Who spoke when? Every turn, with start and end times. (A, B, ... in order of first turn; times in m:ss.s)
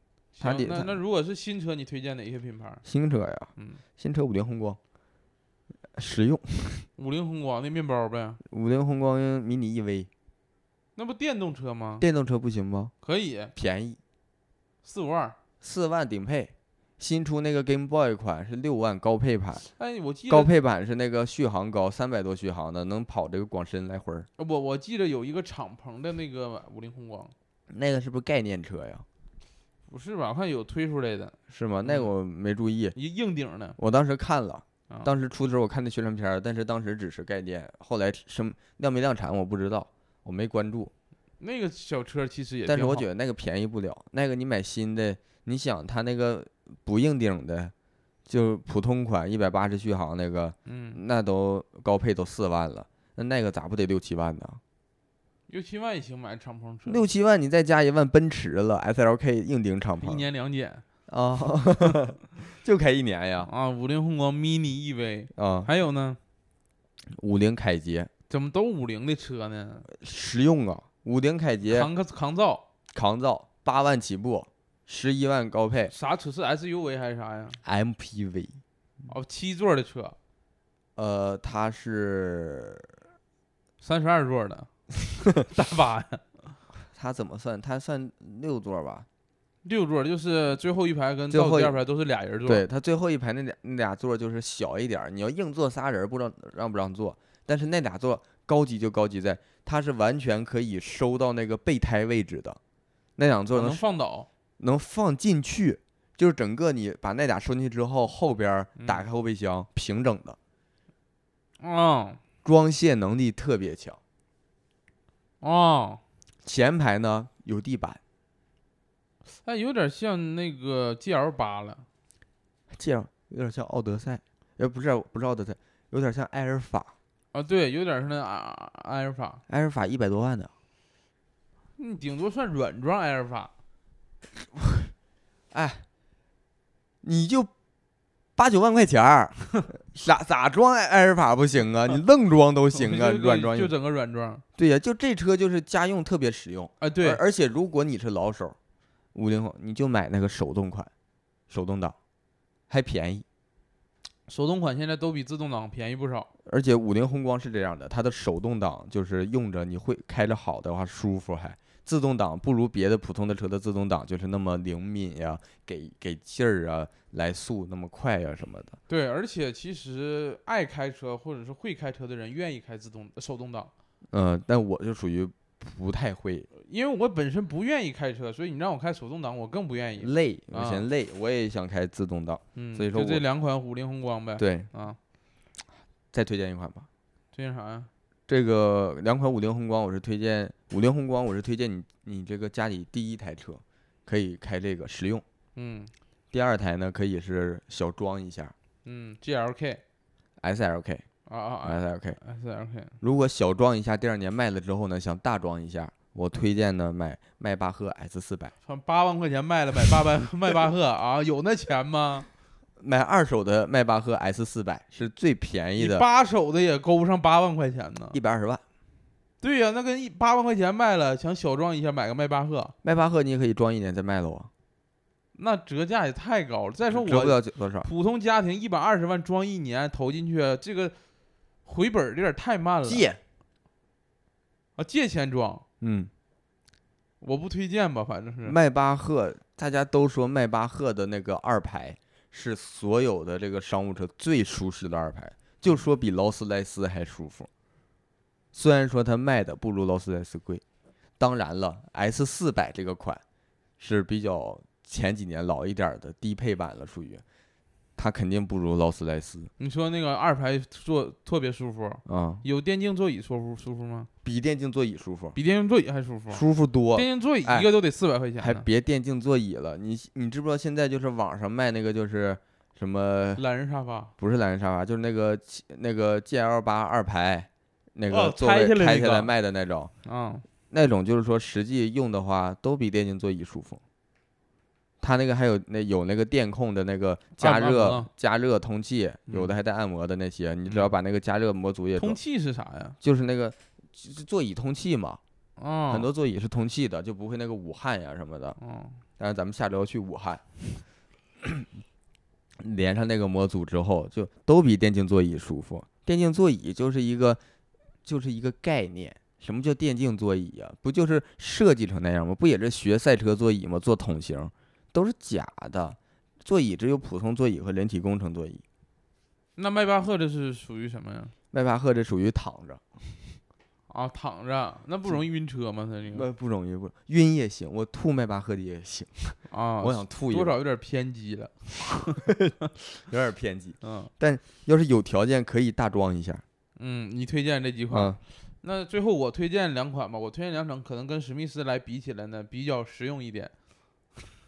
0:00.4-0:02.8 A
0:00.4-0:01.0 B
0:02.8-0:04.8 B
0:06.0-0:06.9 B
0:07.0-0:08.4 A
0:08.4-0:10.1 B
0:11.0-0:12.0 A
0:12.0-0:12.9 B
0:13.0-0:13.5 A
0:13.5-0:14.0 B
0:14.8-0:15.4 A
0:15.6-0:19.6 B
0:19.7-0:20.5 A
0:20.3-0:24.3 B
0:24.4-0:27.3 A
0:27.7-0:29.0 B
0:29.9-0:32.1 A
0:31.5-0:33.0 B
0:32.9-0:33.8 A
0:33.8-0:40.9 B
0:41.4-0:43.0 A
0:42.6-0:47.7 B
0:48.3-0:54.6 B
0:50.6-0:51.0 A
0:55.5-0:57.0 A
0:56.9-1:00.2 B
1:00.0-1:00.8 A
1:01.1-1:03.5 B
1:03.4-1:06.2 A
1:05.3-1:05.7 B
1:07.1-1:08.1 B
1:08.3-1:09.9 A
1:09.9-1:11.9 B
1:11.6-1:12.6 A
1:12.9-1:15.9 B
1:15.9-1:17.6 A
1:17.6-1:18.6 B
1:19.1-1:20.2 A
1:21.0-1:22.9 B
1:23.8-1:24.7 A
1:25.3-1:26.4 A
1:26.9-1:29.0 B
1:29.6-1:32.6 A
1:31.3-1:31.8 B
1:32.4-1:42.6 B
1:43.2-1:43.8 B
1:43.5-1:44.3 A
1:44.6-1:50.4 B
1:48.8-1:49.0 A
1:51.6-1:52.2 A
1:52.4-1:54.0 B
1:55.4-1:56.0 A
1:56.4-1:58.0 B
1:59.4-2:01.8 A
2:02.7-2:06.9 B
2:07.3-2:09.4 A
2:09.5-2:10.5 B
2:11.8-2:13.5 A
2:14.4-2:14.9 B
2:15.5-2:15.9 B
2:17.0-2:17.5 B
2:18.4-2:23.7 B
2:22.7-2:24.4 A
2:24.6-2:28.6 B
2:26.8-2:27.2 A
2:29.1-2:30.9 B
2:31.5-2:32.0 B
2:32.7-2:33.2 B
2:34.3-2:36.3 A
2:36.4-2:48.8 B
2:48.9-2:53.7 A
2:54.1-2:56.5 B
2:56.5-3:00.9 A
3:00.0-3:03.2 B
3:02.6-3:05.0 A
3:04.4-3:04.7 B
3:06.1-3:06.9 B
3:07.3-3:07.9 A
3:08.3-3:15.2 B
3:15.5-3:15.9 A
3:16.3-3:18.5 B
3:18.8-3:19.8 A
3:20.4-3:21.0 B
3:21.3-3:23.0 A
3:21.6-3:22.2 B
3:23.0-3:28.5 B
3:28.6-3:32.3 A
3:32.8-3:36.0 B
3:35.8-3:38.2 A
3:38.1-3:38.6 B
3:39.4-3:42.7 A
3:42.8-3:44.5 B
3:45.3-3:51.0 A
3:46.9-3:47.9 B
3:51.6-3:53.0 A
3:52.8-3:53.2 B
3:54.8-3:55.6 A
3:55.8-3:56.1 B
3:57.2-3:58.6 A
3:58.5-4:07.5 B
4:08.5-4:10.6 B
4:11.2-4:13.2 B
4:13.8-4:17.2 B
4:18.0-4:19.5 B
4:19.6-4:24.1 A
4:22.0-4:22.4 B
4:24.2-4:25.4 B
4:25.3-4:26.4 A
4:26.3-4:27.7 B
4:26.9-4:28.6 A
4:28.4-4:33.4 B
4:33.4-4:34.1 A
4:34.2-4:39.9 B
4:38.1-4:39.3 A
4:40.0-4:40.4 A
4:40.7-4:43.8 B
4:45.0-4:52.2 B
4:47.4-4:48.1 A
4:49.3-4:49.5 A
4:52.0-4:53.0 A
4:53.0-4:55.2 B
4:55.6-4:56.1 A
4:55.9-4:58.6 B
4:58.6-4:59.0 A
4:59.2-5:00.4 B
5:02.6-5:07.4 B
5:08.0-5:18.6 B
5:19.6-5:21.3 A
5:21.5-5:23.4 B
5:23.9-5:26.3 A
5:26.1-5:30.6 B
5:29.5-5:32.2 A
5:32.2-5:36.4 B
5:33.8-5:34.1 A
5:36.8-5:43.5 A
5:37.9-5:38.2 B